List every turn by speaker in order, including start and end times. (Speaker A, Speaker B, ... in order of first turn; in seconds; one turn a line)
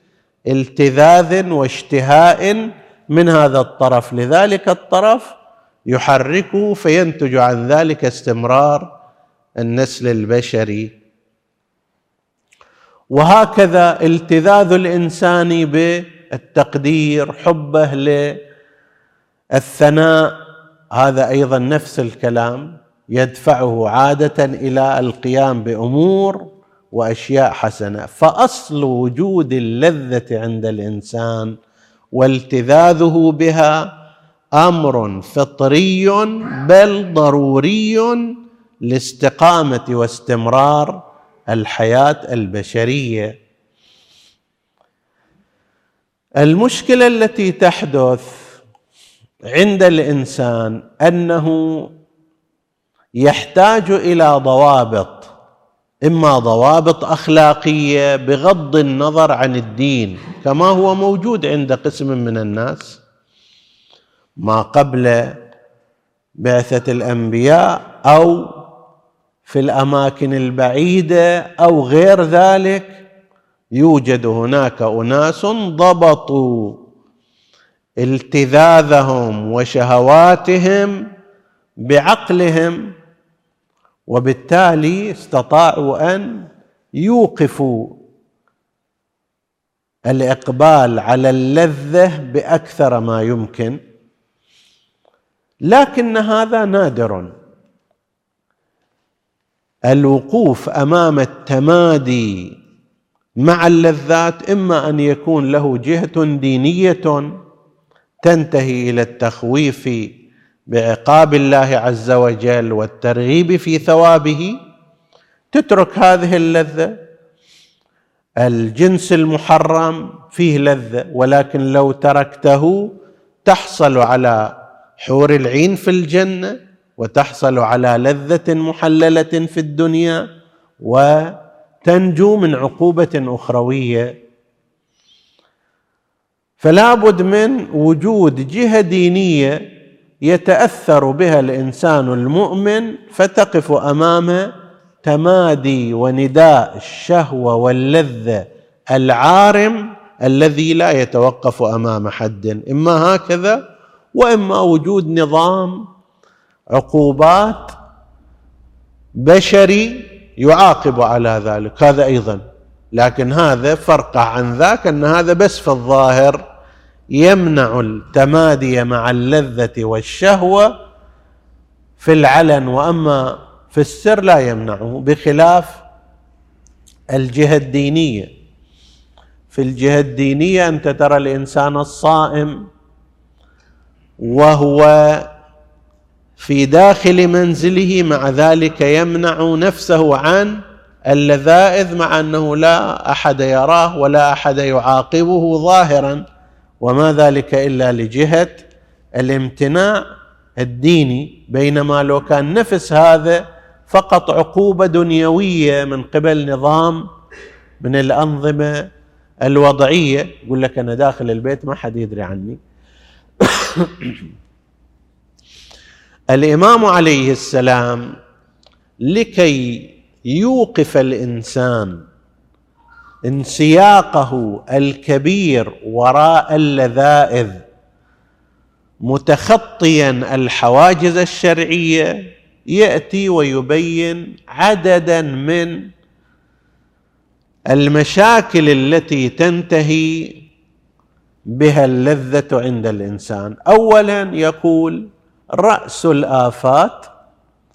Speaker A: 0.5-5.3
Speaker A: 5.9-8.9
Speaker A: 9.6-10.9
Speaker A: 13.1-18.3
Speaker A: 19.6-20.4
Speaker A: 20.9-31.6
Speaker A: 32.1-33.8
Speaker A: 34.6-38.2
Speaker A: 38.8-43.3
Speaker A: 46.4-48.3
Speaker A: 49.5-51.9
Speaker A: 53.2-55.3
Speaker A: 56.0-63.0
Speaker A: 64.4-65.3
Speaker A: 66.4-68.6
Speaker A: 69.5-73.0
Speaker A: 73.7-76.8
Speaker A: 78.0-81.0
Speaker A: 81.8-82.9
Speaker A: 84.1-88.0
Speaker A: 90.1-93.8
Speaker A: 95.7-97.3
Speaker A: 99.9-102.5
Speaker A: 103.4-107.3
Speaker A: 108.2-110.1
Speaker A: 110.7-114.5
Speaker A: 115.5-116.9
Speaker A: 118.4-122.9
Speaker A: 123.4-124.4
Speaker A: 125.0-130.2
Speaker A: 130.8-134.1
Speaker A: 136.6-139.6
Speaker A: 140.2-144.5
Speaker A: 145.0-153.6
Speaker A: 154.1-155.8
Speaker A: 156.7-157.7
Speaker A: 159.2-162.4
Speaker A: 162.9-166.4
Speaker A: 167.1-170.7
Speaker A: 172.0-175.8
Speaker A: 177.1-178.3
Speaker A: 179.5-182.7
Speaker A: 184.2-185.3
Speaker A: 186.4-196.2
Speaker A: 196.8-198.6
Speaker A: 199.2-200.0
Speaker A: 200.6-207.0
Speaker A: 207.8-208.8
Speaker A: 209.4-212.6
Speaker A: 213.4-214.2
Speaker A: 216.3-218.1
Speaker A: 219.0-222.0
Speaker A: 223.2-227.6
Speaker A: 229.1-232.1
Speaker A: 232.7-235.8
Speaker A: 237.7-240.4
Speaker A: 241.5-247.1